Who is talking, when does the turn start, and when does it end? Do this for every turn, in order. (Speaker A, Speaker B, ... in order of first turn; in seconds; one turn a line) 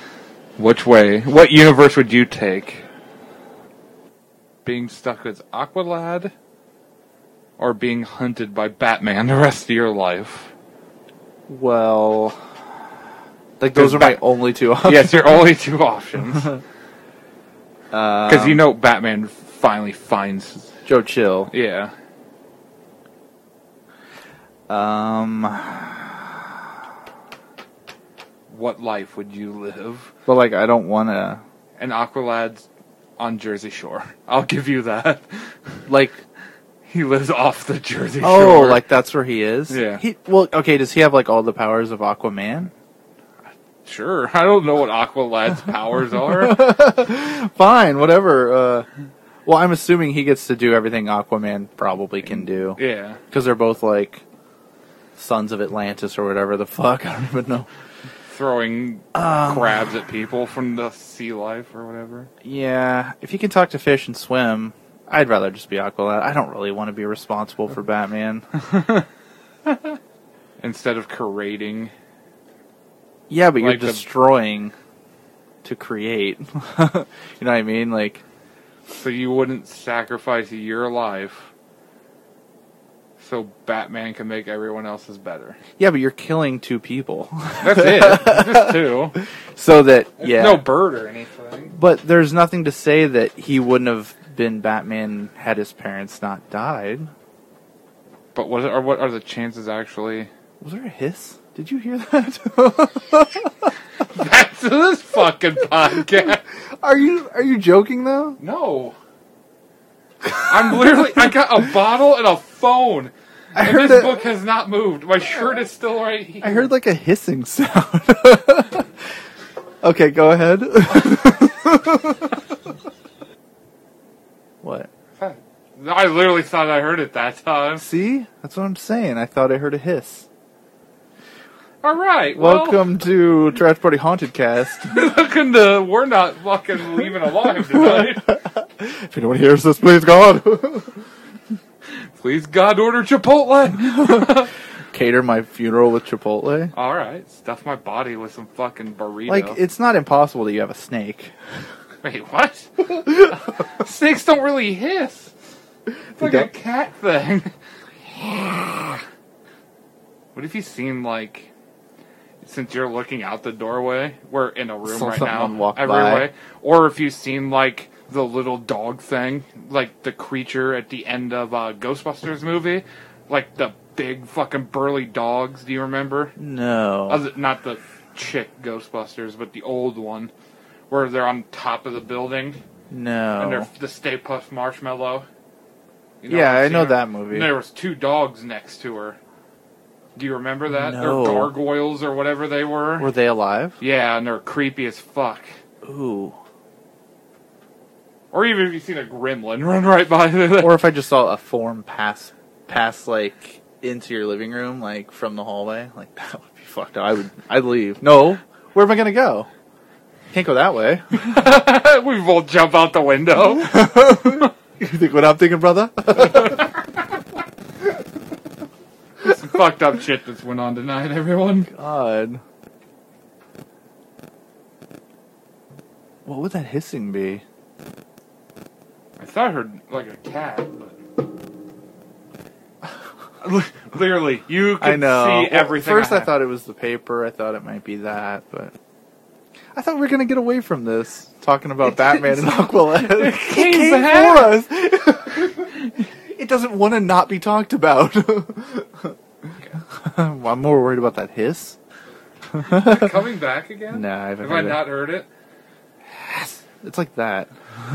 Speaker A: 0.6-2.8
Speaker A: 4.6-6.3
Speaker A: 7.6-10.5
Speaker B: 11.5-12.4
Speaker B: 13.6-15.2
Speaker A: 13.7-14.2
Speaker A: 14.8-16.6
Speaker B: 17.9-18.6
Speaker A: 18.3-20.7
Speaker B: 20.9-21.5
Speaker A: 21.5-21.9
Speaker B: 24.7-26.5
Speaker A: 28.5-30.1
Speaker B: 30.2-31.4
Speaker A: 31.8-32.6
Speaker A: 33.2-35.5
Speaker B: 35.9-36.2
Speaker A: 36.9-38.8
Speaker B: 38.2-42.7
Speaker A: 39.7-40.0
Speaker A: 43.8-46.6
Speaker B: 46.3-48.9
Speaker B: 49.4-54.2
Speaker A: 52.8-53.2
Speaker B: 55.1-57.7
Speaker A: 58.3-62.3
Speaker B: 59.1-59.9
Speaker B: 62.4-68.4
Speaker A: 68.6-69.0
Speaker A: 69.7-69.9
Speaker A: 70.6-71.9
Speaker B: 73.3-74.7
Speaker A: 73.6-74.0
Speaker B: 75.6-78.2
Speaker A: 78.9-81.5
Speaker A: 83.2-85.6
Speaker B: 85.8-90.7
Speaker A: 87.6-89.2
Speaker A: 90.2-91.7
Speaker B: 91.7-97.1
Speaker A: 98.3-100.3
Speaker B: 100.6-103.7
Speaker A: 104.1-106.4
Speaker B: 106.8-108.4
Speaker A: 108.4-109.0
Speaker A: 110.4-116.7
Speaker B: 113.5-114.2
Speaker B: 116.4-118.9
Speaker B: 119.8-122.4
Speaker B: 124.6-124.9
Speaker A: 125.2-127.8
Speaker B: 127.8-130.3
Speaker A: 131.8-132.9
Speaker B: 132.3-135.1
Speaker A: 134.9-138.3
Speaker B: 137.7-141.0
Speaker A: 142.2-144.5
Speaker B: 144.0-144.3
Speaker B: 144.9-146.7
Speaker A: 146.7-149.6
Speaker B: 149.3-151.3
Speaker A: 152.0-155.3
Speaker B: 156.2-156.5
Speaker A: 156.2-157.5
Speaker A: 158.1-159.0
Speaker A: 160.3-161.5
Speaker A: 162.4-176.3
Speaker B: 164.8-166.3
Speaker B: 176.4-177.2
Speaker A: 177.1-180.3
Speaker A: 180.9-182.6
Speaker B: 182.9-183.7
Speaker A: 183.4-185.3
Speaker A: 186.2-189.2
Speaker B: 186.3-187.5
Speaker A: 190.2-193.1
Speaker B: 190.7-191.5
Speaker B: 193.0-193.8
Speaker A: 193.8-195.5
Speaker B: 195.8-196.4
Speaker A: 198.3-200.8
Speaker B: 200.6-209.5
Speaker B: 210.3-211.2
Speaker A: 211.2-213.9
Speaker B: 213.5-216.7
Speaker A: 216.3-216.6
Speaker A: 219.2-221.7
Speaker B: 221.7-222.4
Speaker B: 226.2-227.4
Speaker A: 229.2-231.0
Speaker A: 233.4-236.3
Speaker B: 234.8-238.7
Speaker B: 239.7-245.7
Speaker A: 242.9-244.6
Speaker B: 246.2-251.8
Speaker B: 252.5-253.1
Speaker A: 252.6-255.3
Speaker B: 253.9-254.9
Speaker B: 256.8-257.5